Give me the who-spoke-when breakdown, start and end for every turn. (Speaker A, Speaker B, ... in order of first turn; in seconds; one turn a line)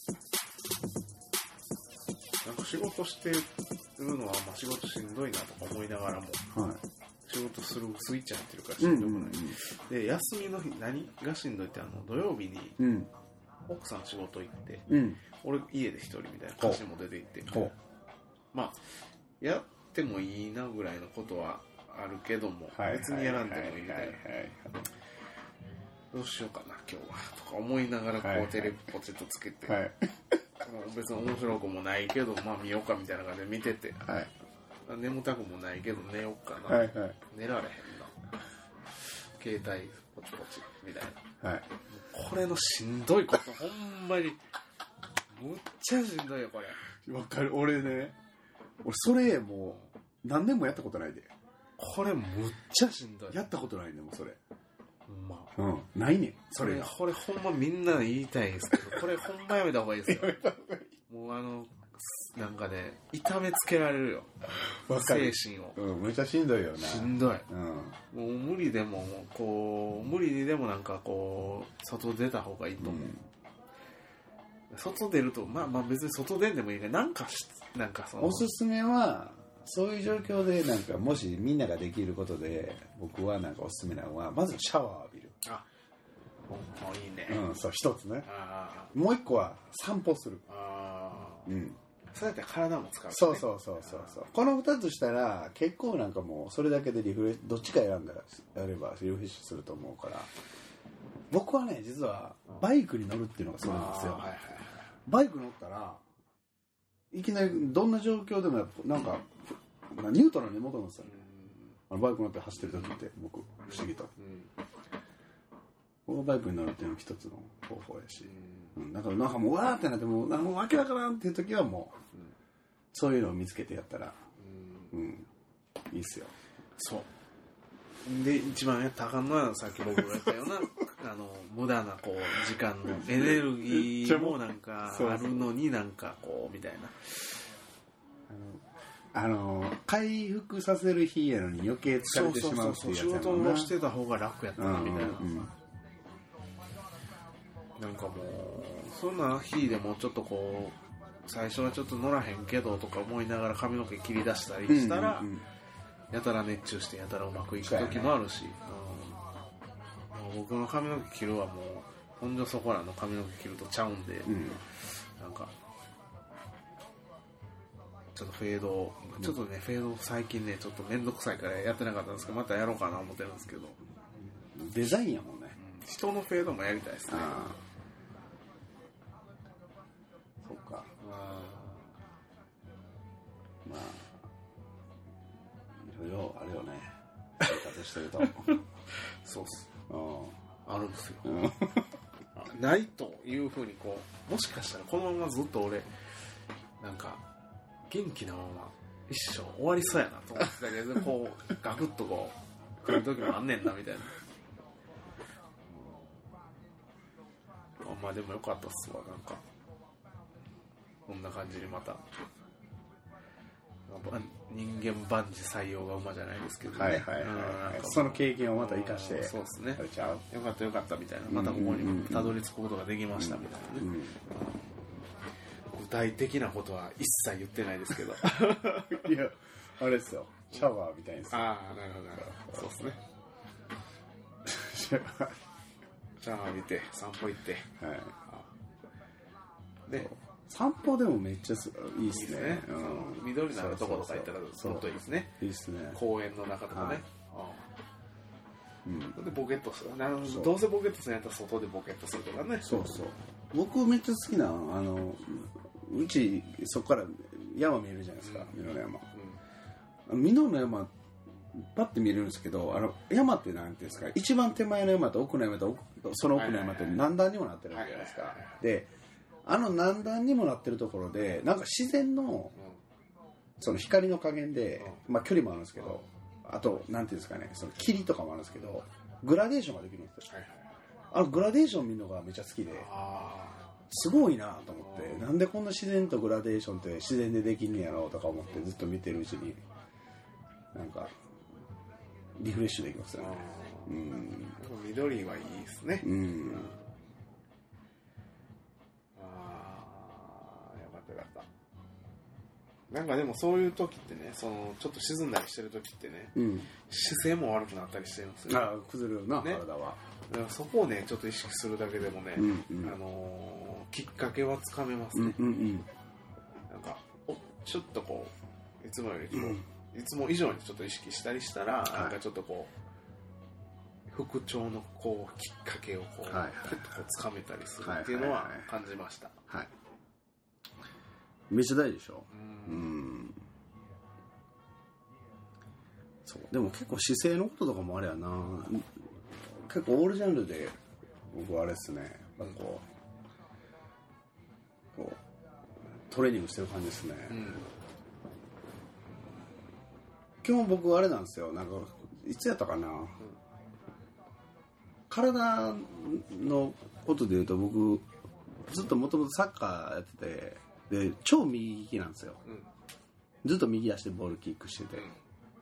Speaker A: 2.4-6.4
Speaker B: 6.5-6.8
Speaker A: 7.2-12.8
Speaker B: 8.8-9.6
Speaker B: 12.8-13.1
Speaker A: 13.7-17.7
Speaker B: 14.9-15.2
Speaker B: 17.5-17.7
Speaker A: 18.5-18.8
Speaker A: 19.4-24.2
Speaker B: 22.7-24.8
Speaker A: 26.1-29.8
Speaker B: 28.2-28.7
Speaker B: 29.6-30.4
Speaker A: 30.6-34.2
Speaker A: 34.9-38.1
Speaker B: 36.7-37.2
Speaker A: 39.4-41.2
Speaker A: 41.9-44.4
Speaker A: 45.3-46.8
Speaker B: 47.0-48.2
Speaker B: 48.8-51.3
Speaker A: 51.8-53.4
Speaker B: 53.3-54.4
Speaker A: 55.1-55.5
Speaker B: 55.5-56.9
Speaker A: 56.6-60.4
Speaker B: 60.1-60.9
Speaker A: 61.1-64.3
Speaker B: 64.9-68.0
Speaker A: 64.9-65.8
Speaker A: 66.8-67.5
Speaker A: 68.1-73.1
Speaker B: 72.8-73.2
Speaker A: 74.7-78.5
Speaker B: 78.2-85.3
Speaker A: 86.5-87.4
Speaker B: 87.3-88.3
Speaker A: 88.2-88.9
Speaker B: 88.9-90.4
Speaker A: 90.5-91.5
Speaker B: 91.5-91.8
Speaker A: 92.1-94.2
Speaker B: 93.1-100.3
Speaker B: 101.3-104.3
Speaker A: 103.6-104.9
Speaker B: 105.0-106.0
Speaker B: 107.1-111.2
Speaker A: 111.0-111.7
Speaker B: 111.9-114.1
Speaker A: 114.2-114.5
Speaker B: 116.1-122.0
Speaker A: 118.2-118.8
Speaker B: 122.9-124.2
Speaker A: 124.4-124.9
Speaker B: 124.9-125.3
Speaker B: 125.9-126.3
Speaker A: 126.8-127.1
Speaker A: 128.0-137.1
Speaker B: 132.8-135.5
Speaker B: 138.3-143.7
Speaker A: 142.1-145.3
Speaker B: 144.6-145.5
Speaker A: 147.8-155.3
Speaker B: 154.7-155.4
Speaker A: 156.1-159.2
Speaker B: 157.6-158.1
Speaker A: 160.1-164.6
Speaker B: 164.2-164.6
Speaker A: 165.2-165.5
Speaker A: 168.1-173.8
Speaker B: 174.5-175.6
Speaker A: 175.6-177.5
Speaker B: 177.1-177.6
Speaker B: 180.4-180.9
Speaker A: 181.0-181.8
Speaker B: 183.6-184.1
Speaker B: 185.8-188.5
Speaker A: 188.2-188.6
Speaker A: 189.2-189.7
Speaker B: 189.9-190.4
Speaker A: 190.7-191.5
Speaker B: 191.2-191.8
Speaker A: 192.3-195.9
Speaker A: 196.8-197.2
Speaker A: 197.9-204.1
Speaker A: 207.8-209.4
Speaker A: 211.1-212.0
Speaker A: 213.9-224.0
Speaker B: 216.7-220.2
Speaker B: 221.3-222.4
Speaker B: 223.2-224.2
Speaker A: 225.7-229.1
Speaker B: 228.7-231.5
Speaker A: 231.3-233.0
Speaker B: 232.2-232.6
Speaker B: 234.4-235.4
Speaker A: 236.2-237.7
Speaker B: 237.8-238.1
Speaker B: 239.9-246.0
Speaker A: 242.1-245.3
Speaker A: 245.9-247.7
Speaker B: 246.7-247.0
Speaker B: 248.8-249.2
Speaker A: 249.1-252.8
Speaker B: 250.2-250.5
Speaker B: 252.6-259.1
Speaker A: 258.2-258.5
Speaker B: 260.1-260.9
Speaker B: 261.5-268.9
Speaker A: 266.3-267.0
Speaker A: 267.7-268.6
Speaker B: 269.4-272.5
Speaker B: 273.6-280.2
Speaker A: 280.3-280.6
Speaker B: 281.1-282.9
Speaker A: 282.7-283.7
Speaker B: 283.9-289.6
Speaker A: 284.8-285.2
Speaker B: 290.7-291.1
Speaker B: 292.4-294.6
Speaker A: 293.1-293.9
Speaker A: 294.6-296.8
Speaker B: 296.0-296.7
Speaker A: 299.1-301.5
Speaker A: 302.9-308.7
Speaker B: 306.3-306.7
Speaker B: 308.5-310.0
Speaker A: 310.3-315.4
Speaker B: 312.4-312.9
Speaker B: 315.1-315.9
Speaker A: 316.7-322.7
Speaker B: 319.3-319.6
Speaker B: 321.9-322.1
Speaker A: 324.1-329.4
Speaker B: 326.2-326.8
Speaker B: 327.8-328.6
Speaker B: 331.5-333.4
Speaker A: 332.3-332.9
Speaker B: 336.2-339.0
Speaker B: 339.5-340.8
Speaker B: 341.3-342.9
Speaker B: 344.9-345.2
Speaker B: 346.1-347.5
Speaker A: 347.3-347.6
Speaker B: 350.4-353.2
Speaker B: 355.1-358.1
Speaker B: 358.6-362.4
Speaker B: 363.4-365.1